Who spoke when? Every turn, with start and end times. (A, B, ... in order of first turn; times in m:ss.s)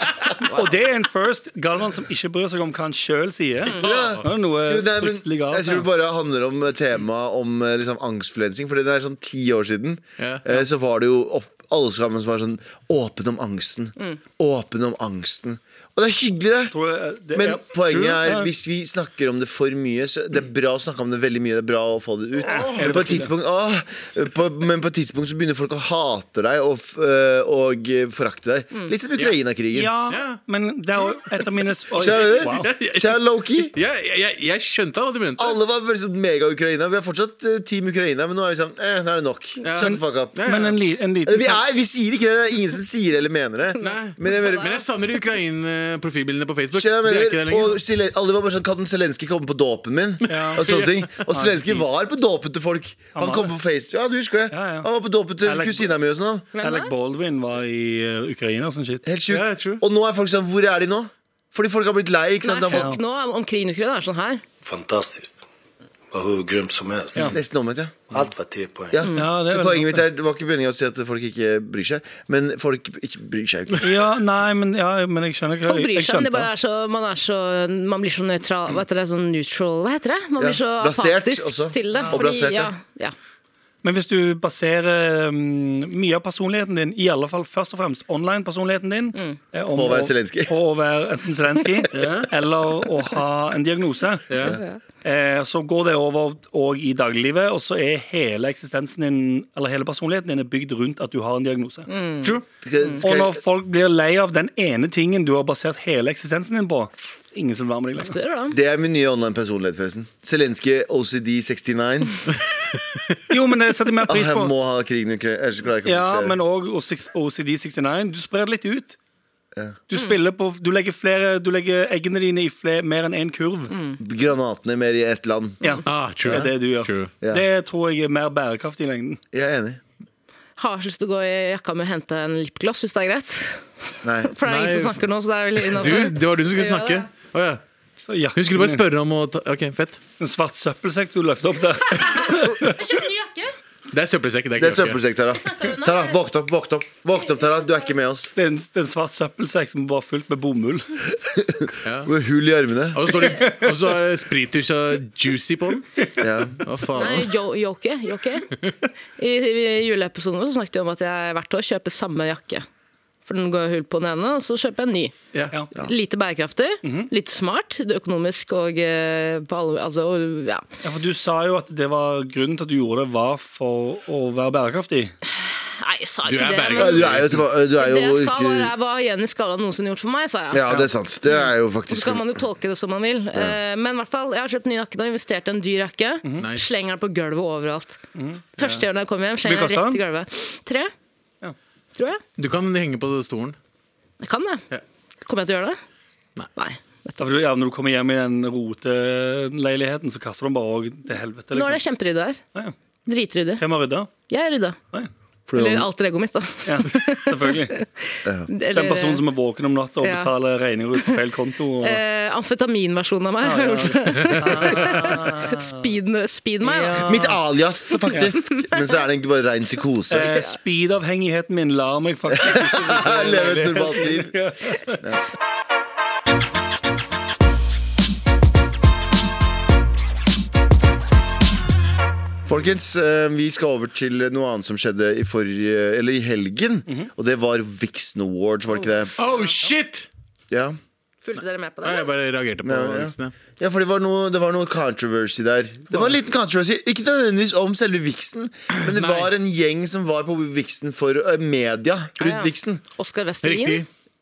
0:00.5-0:05.9 A
0:03.7-0:04.3 B
0:03.7-0:16.7 C
0:10.2-0:10.5 B
0:16.7-0:17.7 A
0:17.3-0:29.9 C
0:17.9-0:18.3 B
0:18.2-0:18.5 A
0:22.4-0:23.3 A
0:22.6-0:23.1 B
0:29.2-0:32.7 A
0:30.1-0:30.4 B
0:31.0-0:31.3 B
0:32.0-0:33.7 C
0:32.0-0:35.6 B
0:35.4-0:40.4 C
0:39.6-0:40.8 B
0:39.8-0:41.6 A
0:41.3-0:44.8 C
0:43.8-0:47.8 B
0:46.7-0:56.5 C
0:50.3-0:51.8 A
0:50.3-0:51.0 B
0:53.2-0:53.5 A
0:54.5-0:54.9 A
0:55.4-0:55.9 A
0:56.6-0:56.9 D
0:56.6-0:59.0 A
0:59.0-1:02.9 C
0:59.3-0:59.8 B
1:02.4-1:04.4 D
1:02.7-1:03.0 A
1:04.6-1:05.4 E
1:06.1-1:07.4 E
1:07.3-1:08.2 C
1:08.1-1:09.0 E
1:08.9-1:13.9 C
1:09.2-1:10.0 A
1:13.8-1:16.5 A
1:15.7-1:23.2 D
1:20.4-1:22.7 C
1:23.8-1:34.3 A
1:29.7-1:30.6 C
1:31.9-1:32.3 B
1:34.3-1:34.6 B
1:34.3-1:34.6 C
1:35.0-1:41.9 A
1:41.9-1:42.3 D
1:42.6-1:43.4 C
1:43.0-1:48.2 A
1:48.0-1:48.6 D
1:48.5-1:52.2 C
1:53.3-1:54.5 A
1:54.1-1:56.4 C
1:55.8-1:59.0 A
1:59.9-2:03.7 A
2:03.7-2:04.0 D
2:04.0-2:05.6 C
2:05.6-2:09.2 A
2:05.9-2:07.1 B
2:06.2-2:06.5 C
2:09.3-2:09.8 C
2:10.6-2:13.7 D
2:14.0-2:14.3 C
2:14.2-2:17.0 D
2:14.4-2:15.0 B
2:15.6-2:17.6 B
2:18.1-2:18.8 A
2:18.4-2:20.0 B
2:20.2-2:22.8 A
2:22.5-2:23.5 D
2:23.9-2:25.0 B
2:24.6-2:28.3 C
2:25.3-2:26.2 D
2:28.4-2:30.8 A
2:31.2-2:33.1 C
2:31.8-2:32.1 B
2:32.9-2:35.9 B
2:33.4-2:33.7 A
2:36.2-2:36.6 C
2:36.6-2:37.4 B
2:37.0-2:38.5 D
2:39.2-2:42.6 D
2:43.3-2:45.1 D
2:45.8-2:50.6 D
2:46.8-2:47.1 A
2:50.8-2:55.2 A
2:55.3-2:57.2 D
2:56.2-2:57.4 B
2:56.8-2:58.7 C
2:57.8-3:00.6 D
3:00.5-3:02.4 C
3:01.9-3:08.0 D
3:06.2-3:06.5 A
3:06.4-3:06.7 B
3:08.2-3:08.5 A
3:08.6-3:10.9 D
3:09.4-3:10.0 A
3:12.0-3:12.2 D
3:12.4-3:13.6 B
3:14.2-3:14.6 D
3:15.2-3:15.8 D
3:16.6-3:17.2 D
3:17.2-3:21.8 A
3:21.5-3:22.4 D
3:23.1-3:23.6 D
3:23.6-3:24.1 A
3:24.3-3:24.8 D
3:25.5-3:25.9 B
3:25.5-3:29.2 D
3:26.6-3:27.8 A
3:28.7-3:32.0 A
3:30.0-3:30.3 D
3:31.8-3:37.0 D
3:33.4-3:35.8 A
3:36.6-3:37.4 A
3:37.0-3:40.4 C
3:38.4-3:38.9 D
3:40.1-3:45.0 A
3:40.2-3:40.5 D
3:42.3-3:44.4 C
3:52.5-3:59.2 C
3:59.2-4:00.1 B
4:00.5-4:00.8 C
4:01.2-4:02.1 D
4:01.8-4:03.3 B
4:02.6-4:12.8 C
4:08.8-4:09.3 B
4:12.2-4:13.8 D
4:13.4-4:13.9 B